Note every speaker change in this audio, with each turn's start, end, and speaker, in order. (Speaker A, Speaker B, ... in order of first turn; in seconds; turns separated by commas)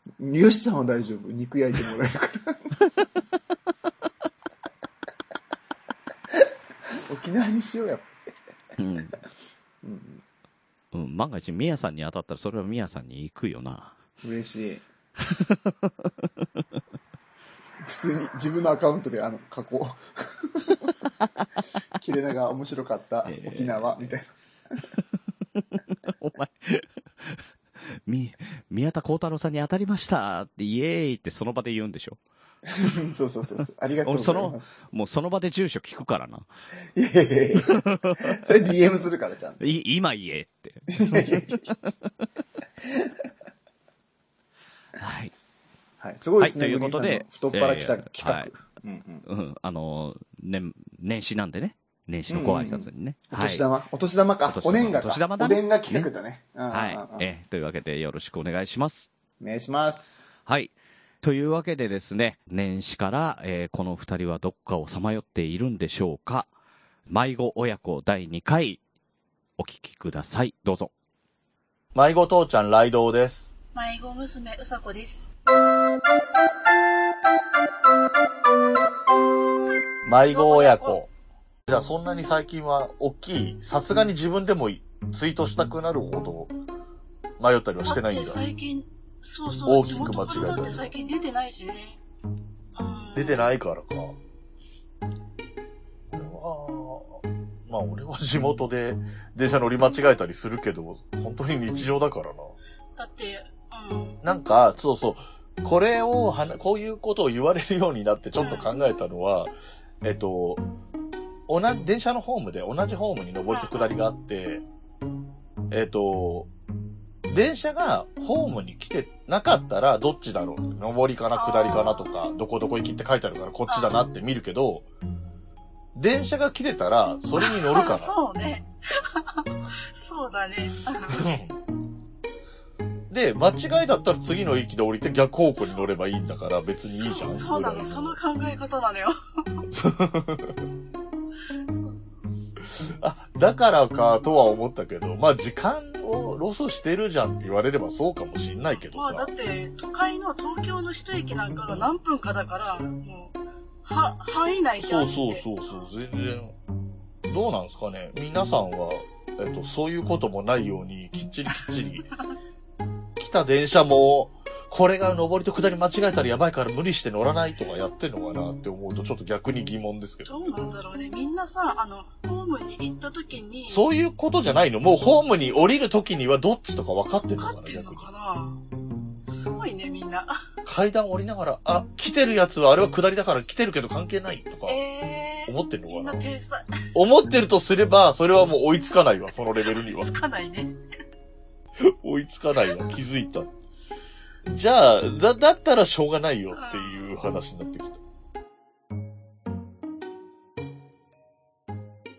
Speaker A: 0.2-2.7, Speaker A: 7.0-8.1, Speaker B: 8.8-9.2, Speaker A: 9.8-10.2, Speaker B: 10.9-14.0, Speaker A: 14.2-14.8, Speaker B: 15.2-16.4, Speaker A: 17.8-20.9, Speaker B: 21.2-21.5, Speaker A: 22.0-24.2, Speaker B: 23.2-24.1, Speaker B: 25.5-27.4, Speaker B: 28.1-32.2, Speaker A: 32.7-34.6, Speaker B: 34.0-36.5, Speaker A: 36.9-39.6, Speaker B: 37.6-38.4, Speaker B: 39.6-42.1, Speaker A: 40.9-41.7, Speaker A: 42.8-43.2, Speaker B: 45.0-45.3, Speaker A: 46.0-49.2, Speaker B: 46.4-48.5, Speaker B: 49.2-53.6, Speaker A: 52.3-57.2, Speaker B: 54.5-56.1, Speaker B: 56.7-59.1, Speaker A: 59.4-60.2, Speaker B: 60.5-66.5, Speaker B: 67.1-68.8, Speaker B: 69.6-70.9, Speaker C: 71.9-73.5, Speaker D: 73.7-75.3, Speaker C: 80.0-81.1, Speaker D: 80.3-81.0, Speaker C: 81.7-86.5, Speaker C: 87.4-88.4, Speaker D: 87.8-92.0, Speaker C: 89.6-90.9, Speaker D: 92.7-93.5, Speaker C: 93.1-94.2, Speaker C: 96.1-102.5, Speaker D: 103.0-104.2, Speaker C: 104.2-110.7, Speaker D: 108.4-108.7, Speaker C: 111.5-114.6, Speaker D: 113.5-114.0, Speaker C: 115.7-116.5, Speaker C: 117.3-124.8, Speaker D: 121.3-122.2, Speaker D: 123.7-124.0, Speaker C: 125.9-128.1, Speaker D: 127.3-131.2, Speaker C: 131.1-131.6, Speaker C: 133.1-138.2, Speaker D: 135.6-135.8, Speaker D: 136.7-139.6, Speaker C: 139.7-140.6, Speaker D: 141.5-142.2, Speaker C: 143.0-149.3, Speaker D: 148.7-155.9, Speaker C: 154.8-156.6, Speaker C: 157.3-162.1, Speaker C: 163.2-170.5, Speaker D: 170.2-173.8, Speaker C: 173.7-178.1, Speaker D: 177.4-178.6, Speaker D: 179.2-180.4, Speaker C: 180.7-184.8, Speaker D: 184.7-186.8, Speaker C: 185.4-186.2, Speaker C: 186.9-190.1, Speaker D: 189.7-190.8, Speaker C: 192.0-193.5, Speaker C: 194.5-198.0, Speaker D: 196.5-197.1